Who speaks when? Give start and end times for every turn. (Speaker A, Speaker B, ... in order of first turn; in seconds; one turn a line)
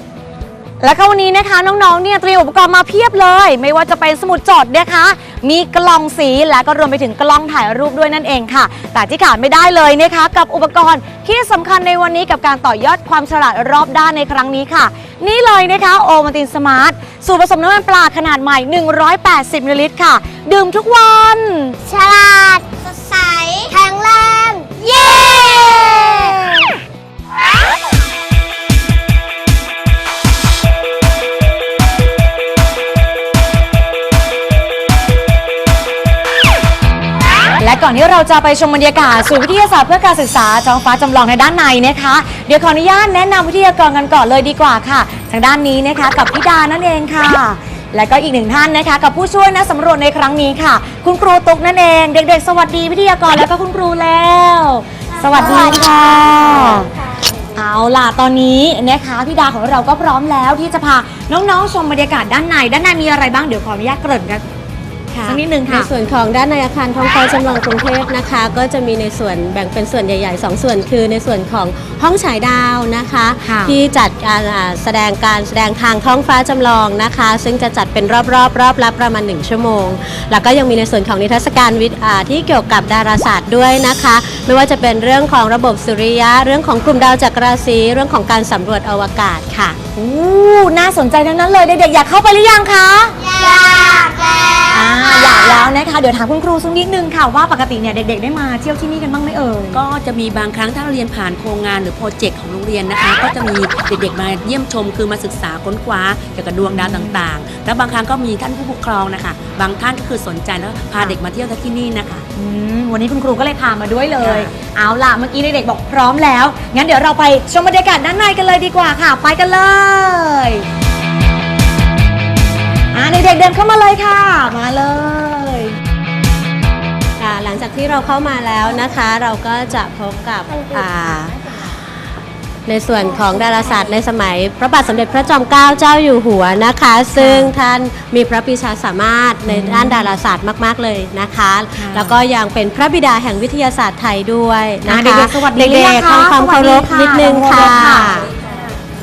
Speaker A: 0.8-21.8
Speaker B: 21.9-26.3
Speaker A: 37.6-56.9
Speaker C: 55.4-56.3
Speaker B: 56.0-56.5
Speaker A: 57.5-64.4
Speaker A: 65.1-65.9
Speaker C: 65.2-89.8
Speaker A: 73.4-73.8
Speaker A: 89.9-93.2
Speaker B: 93.3-95.5
Speaker A: 94.7-99.8
Speaker D: 99.7-112.2
Speaker A: 106.6-107.2
Speaker A: 112.3-120.7
Speaker D: 114.2-114.5
Speaker A: 122.9-125.8
Speaker C: 127.2-131.3
Speaker C: 132.7-148.3
Speaker A: 137.1-137.5
Speaker A: 139.4-140.1
Speaker A: 141.8-142.2
Speaker A: 144.8-148.3